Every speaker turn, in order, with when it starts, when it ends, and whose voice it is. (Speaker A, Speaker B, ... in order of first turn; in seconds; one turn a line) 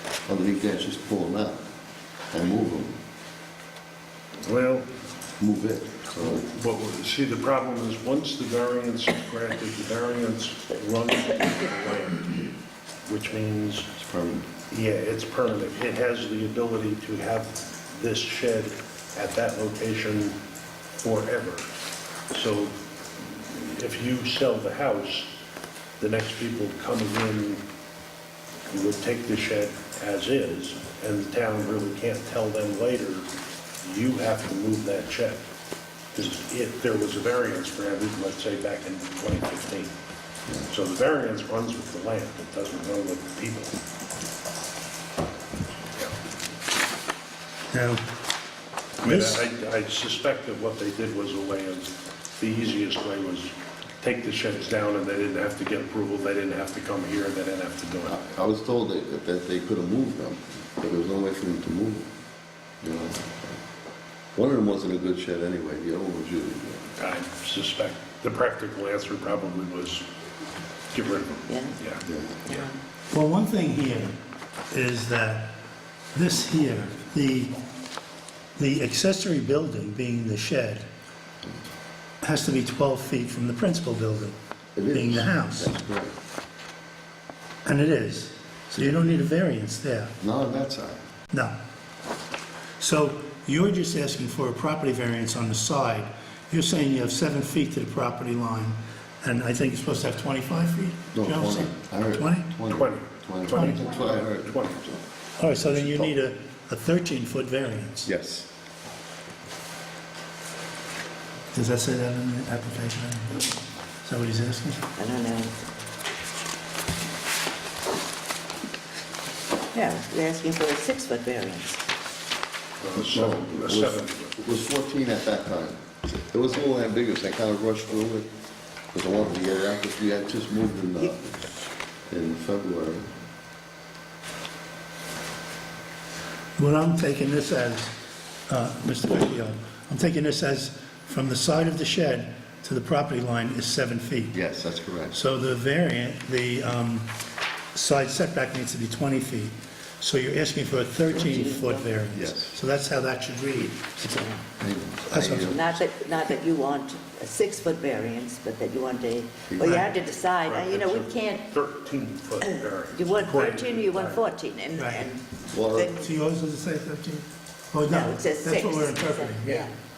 Speaker A: 0.2-1.6
Speaker A: 2.3-3.0
Speaker B: 4.4-4.9
Speaker A: 5.4-6.5
Speaker B: 6.1-12.5
Speaker B: 13.1-13.9
Speaker A: 14.0-14.5
Speaker B: 14.7-20.4
Speaker B: 20.9-21.7
Speaker B: 22.3-25.3
Speaker B: 26.0-27.6
Speaker B: 28.7-33.3
Speaker B: 33.8-35.4
Speaker B: 36.1-39.9
Speaker B: 40.6-43.7
Speaker C: 47.7-48.0
Speaker C: 49.0-49.5
Speaker B: 49.0-58.2
Speaker A: 58.1-62.1
Speaker A: 62.8-63.6
Speaker A: 64.3-66.9
Speaker B: 67.0-70.0
Speaker B: 70.9-72.6
Speaker D: 71.5-71.7
Speaker A: 72.0-72.5
Speaker C: 73.1-74.1
Speaker C: 74.7-75.5
Speaker C: 76.1-77.5
Speaker C: 78.5-80.8
Speaker C: 82.2-84.3
Speaker A: 84.8-86.1
Speaker C: 84.9-85.7
Speaker C: 87.6-90.1
Speaker A: 90.2-91.0
Speaker C: 92.8-102.5
Speaker A: 101.1-104.6
Speaker B: 102.7-105.0
Speaker C: 103.5-103.8
Speaker C: 105.4-108.1
Speaker A: 105.6-106.1
Speaker A: 108.0-108.5
Speaker C: 111.5-113.5
Speaker C: 114.0-114.8
Speaker D: 114.9-115.5
Speaker D: 119.7-121.8
Speaker B: 122.8-124.3
Speaker A: 123.0-128.3
Speaker A: 128.9-131.6
Speaker A: 132.1-133.1
Speaker C: 136.6-137.9
Speaker C: 138.5-144.4
Speaker A: 144.3-145.2
Speaker C: 145.1-147.1
Speaker C: 147.7-154.4
Speaker D: 151.1-152.0
Speaker A: 152.1-152.6
Speaker A: 154.6-155.7
Speaker C: 155.1-155.6
Speaker D: 155.5-161.5
Speaker A: 159.5-159.8
Speaker B: 160.4-164.2
Speaker D: 162.4-166.1
Speaker C: 164.8-165.1
Speaker A: 165.5-166.0
Speaker C: 166.0-169.6
Speaker D: 167.8-169.7